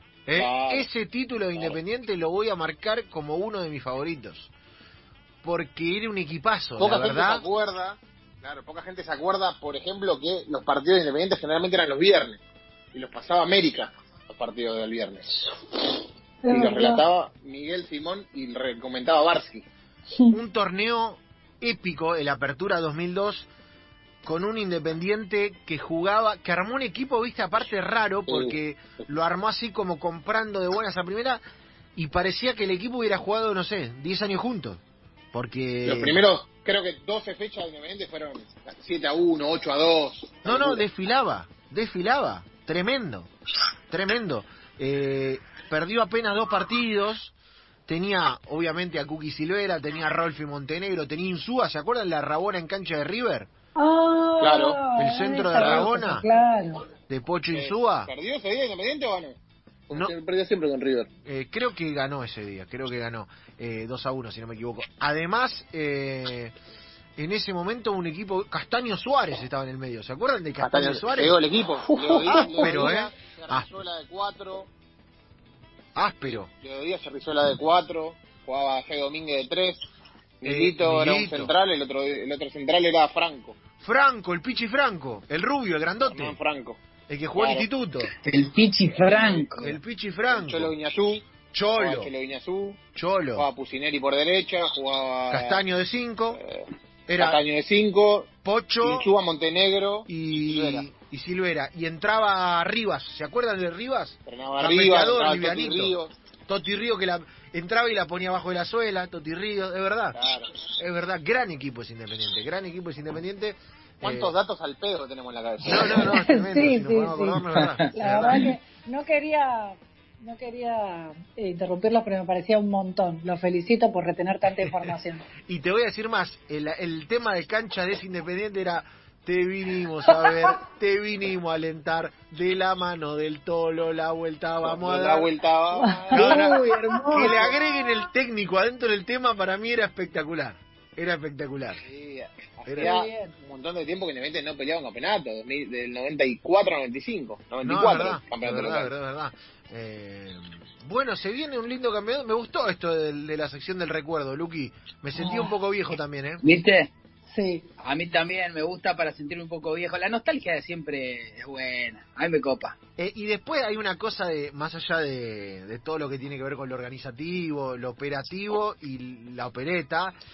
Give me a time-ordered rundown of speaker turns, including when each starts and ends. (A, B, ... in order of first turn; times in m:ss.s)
0:00.3-0:04.5 A
0:00.4-0:00.9 B
0:05.4-0:07.4 A
0:06.8-0:12.4 B
0:12.9-0:15.4 B
0:16.4-0:17.0 C
0:16.5-0:19.7 B
0:20.3-0:23.5 A
0:24.2-0:31.4 A
0:28.3-0:28.6 B
0:32.0-0:34.8 A
0:35.3-0:36.2 A
0:35.9-0:40.8 B
0:40.4-0:43.3 A
0:43.9-0:47.3 A
0:47.9-0:53.5 A
0:53.8-0:56.8 C
0:54.4-0:54.8 B
0:54.9-0:56.3 A
0:55.6-0:55.9 B
0:57.1-0:58.1 A
0:57.5-0:59.4 B
0:59.9-1:01.1 B
1:01.2-1:06.5 A
1:07.2-1:11.4 A
1:10.6-1:14.7 B
1:12.0-1:12.9 C
1:12.3-1:13.7 A
1:16.0-1:16.5 A
1:16.6-1:19.8 B
1:20.4-1:23.6 B
1:20.4-1:21.5 A
1:23.8-1:26.4 A
1:26.0-1:26.8 B
1:27.1-1:28.1 A
1:27.4-1:27.7 B
1:28.2-1:29.6 D
1:29.0-1:29.8 B
1:29.6-1:30.7 A
1:30.3-1:32.8 B
1:31.5-1:32.1 A
1:33.0-1:33.5 A
1:33.4-1:35.6 B
1:35.3-1:36.4 A
1:36.4-1:36.7 B
1:37.1-1:37.4 A
1:37.2-1:38.3 B
1:38.4-1:39.1 A
1:38.8-1:40.8 B
1:40.1-1:46.0 A
1:44.3-1:46.1 B
1:46.5-1:50.2 A
1:50.2-1:50.6 B
1:50.8-1:54.3 A
1:54.0-1:56.2 B
1:55.6-1:58.5 A
1:56.1-2:05.2 C
1:57.6-1:57.9 D
2:05.5-2:15.3 A
2:14.6-2:16.6 B
2:15.8-2:17.6 C
2:16.1-2:21.8 A
2:17.2-2:17.5 B
2:21.8-2:28.9 B
2:22.7-2:22.9 A
2:22.8-2:23.3 C
2:27.6-2:36.4 A
2:36.4-2:36.9 D
2:37.3-2:37.7 C
2:37.8-2:42.8 D
2:43.0-2:50.2 A